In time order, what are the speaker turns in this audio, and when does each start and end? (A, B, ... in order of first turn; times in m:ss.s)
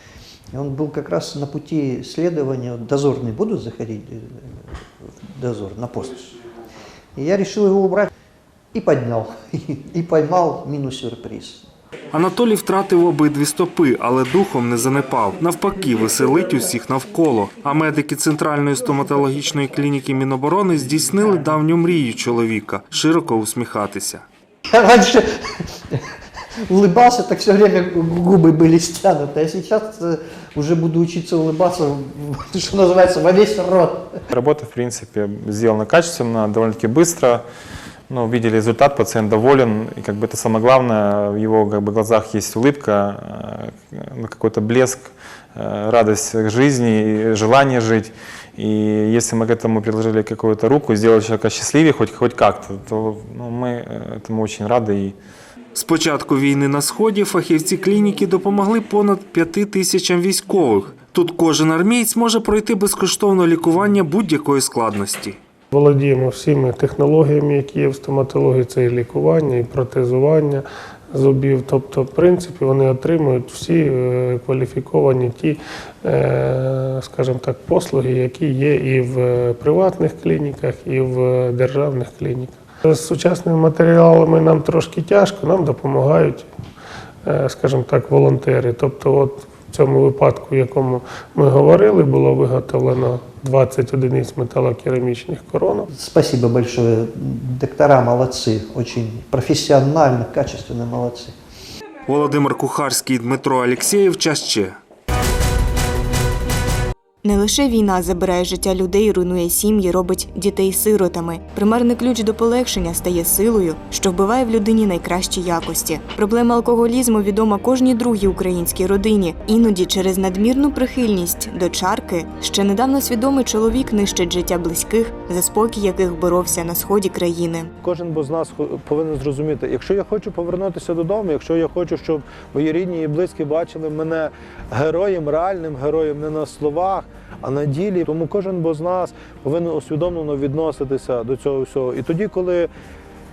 0:00.5-0:06.4 A
0:07.2-0:08.1 A
0:08.7-0:11.6 A
0:12.1-0:24.2 B
0:24.7-0:25.3 A
0:26.7-0:34.2 A
0:34.3-0:37.4 C
0:38.1-0:55.2 C
0:55.8-1:05.4 B
1:05.7-1:26.5 D
1:27.2-1:35.9 D
1:35.9-1:41.3 A
1:42.1-1:44.8 B
1:47.2-2:07.7 E
2:07.8-2:22.7 F